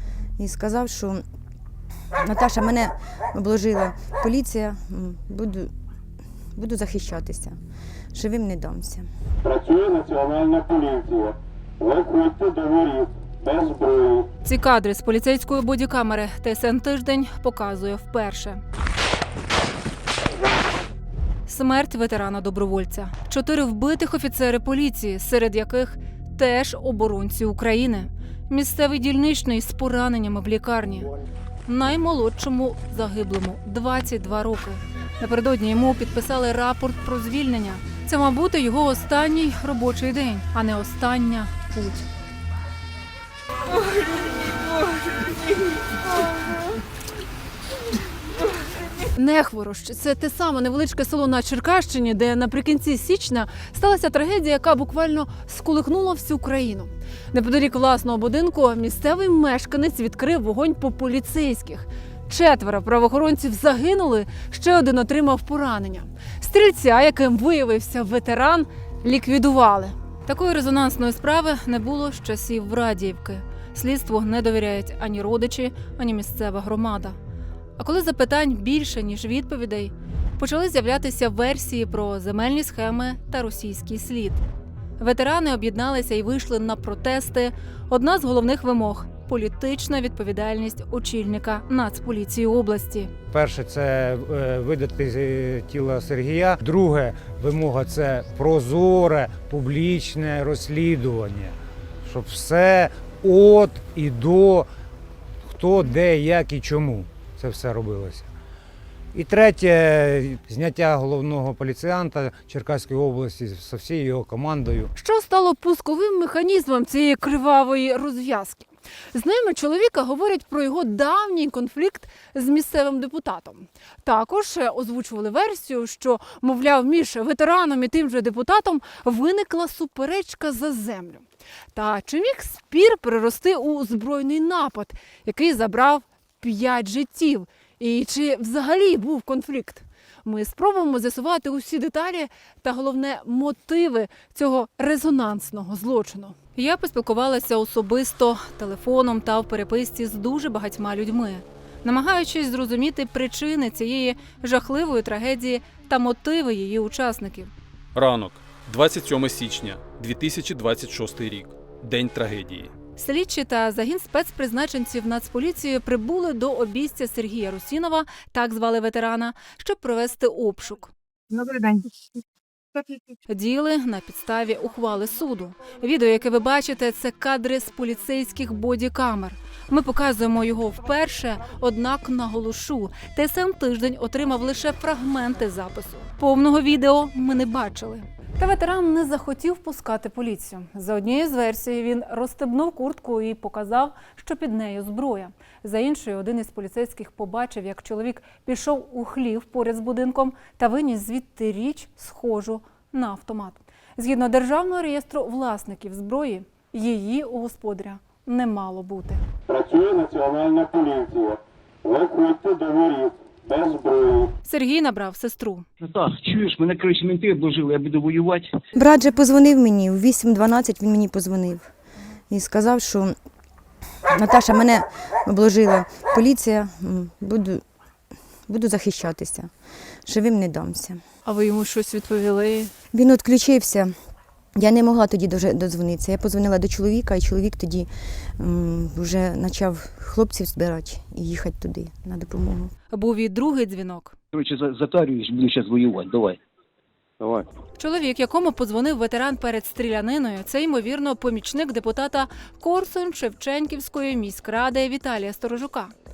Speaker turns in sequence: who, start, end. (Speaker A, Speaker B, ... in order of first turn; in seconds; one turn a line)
Speaker A: 0.4-1.2
Speaker A: 2.2-5.7
Speaker A: 6.6-7.6
Speaker A: 8.1-9.1
Speaker B: 9.6-11.2
Speaker B: 11.9-14.2
Speaker C: 14.4-18.6
Speaker C: 21.5-31.1
Speaker C: 31.7-41.7
Speaker C: 49.1-77.2
Speaker C: 77.8-84.5
Speaker C: 85.0-93.1
Speaker D: 93.3-104.7
Speaker D: 105.5-108.3
Speaker D: 109.1-114.9
Speaker C: 115.0-157.5
Speaker E: 157.9-162.7
Speaker C: 163.0-170.9
Speaker C: 173.3-209.2
Speaker B: 209.6-211.3
Speaker B: 211.9-214.1
Speaker C: 214.4-215.7
Speaker F: 215.9-218.5
Speaker A: 218.8-221.7
Speaker A: 222.3-223.1
Speaker A: 224.1-227.6
Speaker A: 228.5-229.5
Speaker A: 230.1-231.0
Speaker C: 231.2-232.7
Speaker A: 232.9-233.9
Speaker A: 234.6-237.9
Speaker A: 238.4-242.7
Speaker C: 242.9-244.2
Speaker F: 244.3-246.4
Speaker F: 247.2-247.5
Speaker C: 247.8-255.9